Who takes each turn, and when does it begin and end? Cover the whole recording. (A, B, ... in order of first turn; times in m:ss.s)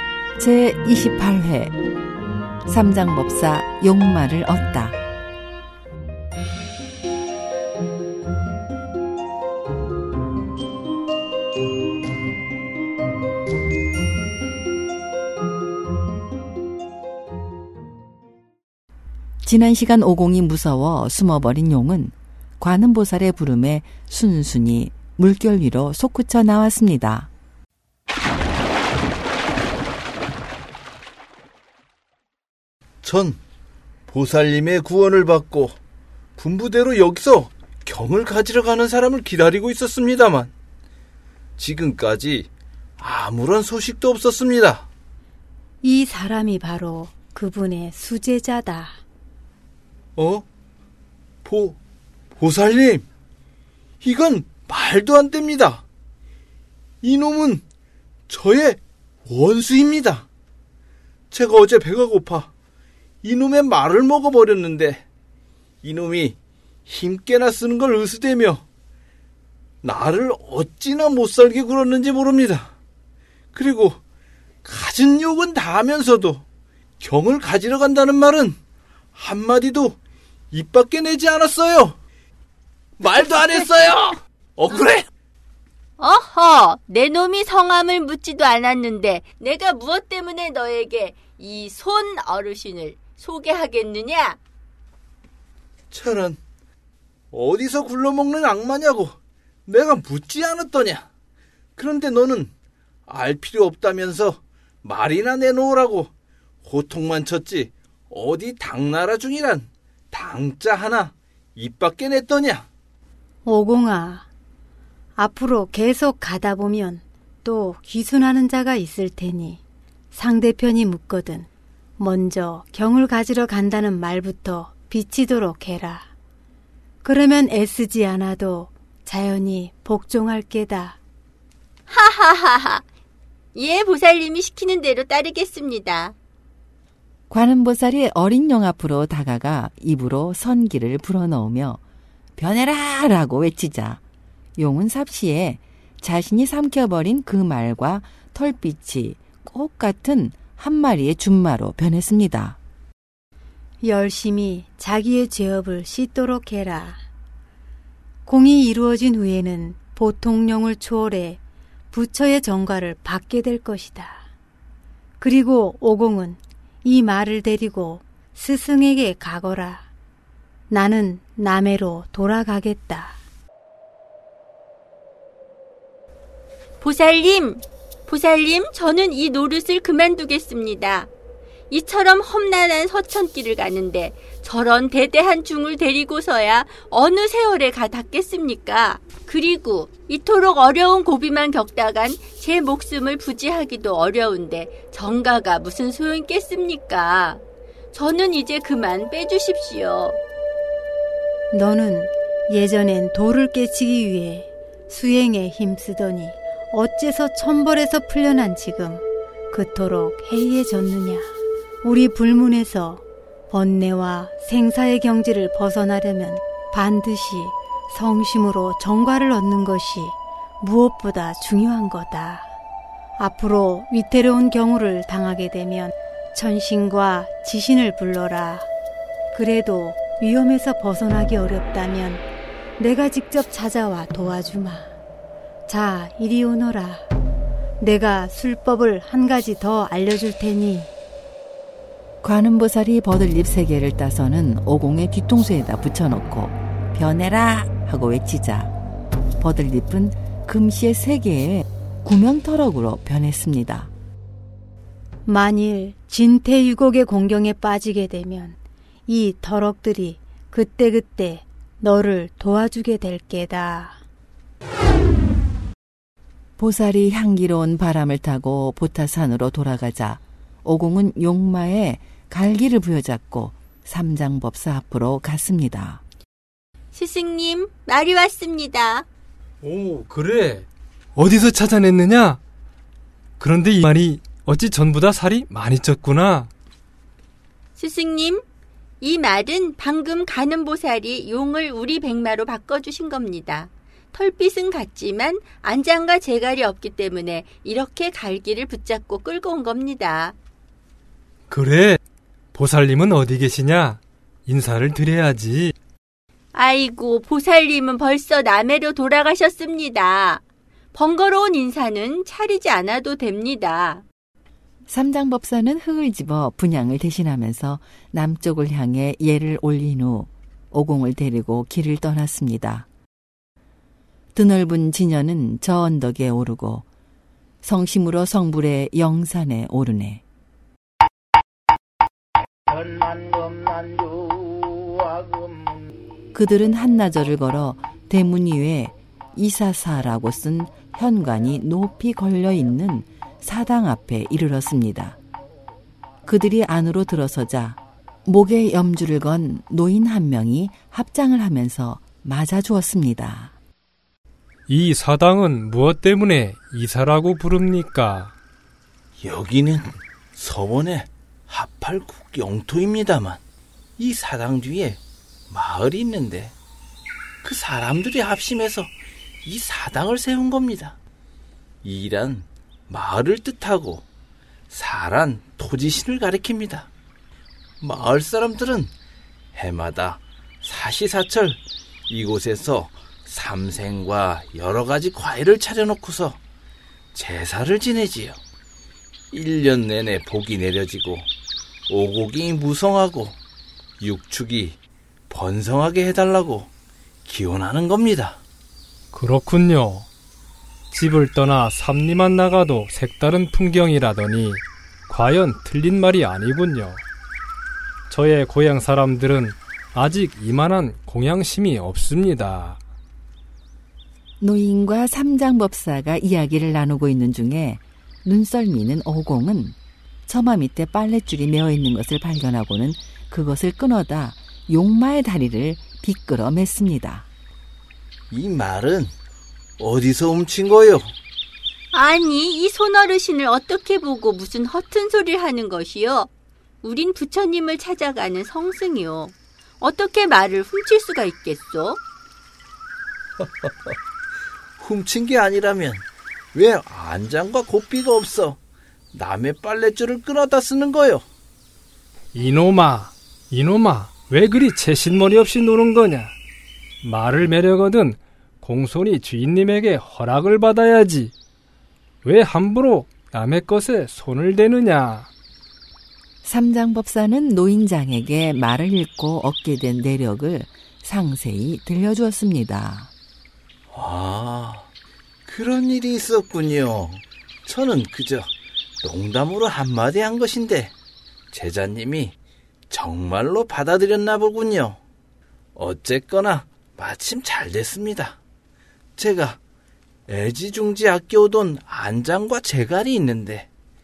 0:00.4-0:01.8 A
0:02.6-0:05.0 A
0:19.4-0:27.3 A
0:33.0-0:33.4 B
0:34.1-0:35.8 B
0:36.4-0:40.5 B
0:41.6-0:44.9 B
0:45.8-0:49.0 C
0:50.2-0:50.4 B
0:51.4-0:51.8 B
0:52.3-0:53.0 B
0:54.0-0:55.8 B
0:57.0-0:57.6 B
0:58.3-1:00.2 B
1:01.3-1:02.5 B
1:03.2-1:05.0 B
1:05.8-1:08.6 B
1:09.8-1:12.7 B
1:13.5-1:14.0 B
1:14.6-1:16.4 B
1:17.0-1:18.6 B
1:19.1-1:20.0 B
1:20.5-1:22.0 B
1:23.0-1:25.1 B
1:26.0-1:34.4 D
1:35.9-1:36.4 B
1:37.3-1:41.1 B
1:41.8-1:42.5 B
1:43.1-1:46.1 B
1:46.6-1:52.7 B
1:53.4-1:54.3 C
1:55.2-1:59.6 C
2:00.1-2:06.1 C
2:07.0-2:11.0 C
2:11.9-2:12.8 D
2:13.5-2:16.1 D
2:17.3-2:21.8 A
2:22.4-2:24.0 A
2:24.6-2:32.6 A
2:33.8-2:37.0 C
2:38.3-2:41.4 C
2:41.9-2:44.2 C
2:45.2-2:49.9 C
2:50.7-2:53.2 C
2:56.8-3:01.1 D
3:01.7-3:20.2 D
3:21.5-3:42.5 C
3:43.2-3:48.7 C
3:49.3-3:52.2 C
3:52.8-3:54.9 C
3:55.7-3:57.1 C
3:57.8-4:00.9 C
4:02.2-4:08.7 A
4:09.4-4:13.9 A
4:15.2-4:24.0 C
4:26.6-4:36.0 A
4:36.9-4:39.0 D
4:39.6-4:42.4 E
4:43.4-4:46.5 E
4:47.8-4:48.4 D
4:49.0-5:00.4 D
5:01.5-5:02.0 E
5:02.5-5:05.7 E
5:06.5-5:10.4 D
5:10.9-5:14.0 D
5:14.9-5:22.9 A
5:24.3-5:26.9 A
5:27.6-5:30.2 A
5:36.3-5:45.2 A
5:46.2-5:53.6 A
5:54.7-5:58.3 E
5:59.2-6:03.4 B
6:04.0-6:06.5 B
6:07.4-6:11.0 B
6:11.8-6:14.0 B
6:14.7-6:16.9 B
6:17.8-6:18.9 B
6:19.5-6:26.4 B
6:27.1-6:28.4 B
6:29.3-6:31.3 B
6:31.9-6:33.4 B
6:34.0-6:36.7 B
6:37.2-6:38.4 B
6:39.1-6:40.1 E
6:40.9-6:47.0 E
6:48.1-6:52.8 E
6:54.4-7:07.3 A
7:08.3-7:09.1 B
7:09.8-7:11.1 B
7:11.9-7:16.3 D
7:16.8-7:22.0 D
7:24.8-7:28.6 B
7:29.1-7:31.2 B
7:32.3-7:36.3 E
7:37.0-7:41.3 E
7:42.2-7:45.3 E
7:46.4-7:53.1 A
7:53.9-7:54.9 B
7:55.4-8:00.9 B
8:01.5-8:02.4 B
8:02.9-8:05.0 B
8:05.7-8:08.4 B
8:09.2-8:09.6 B
8:10.3-8:13.7 B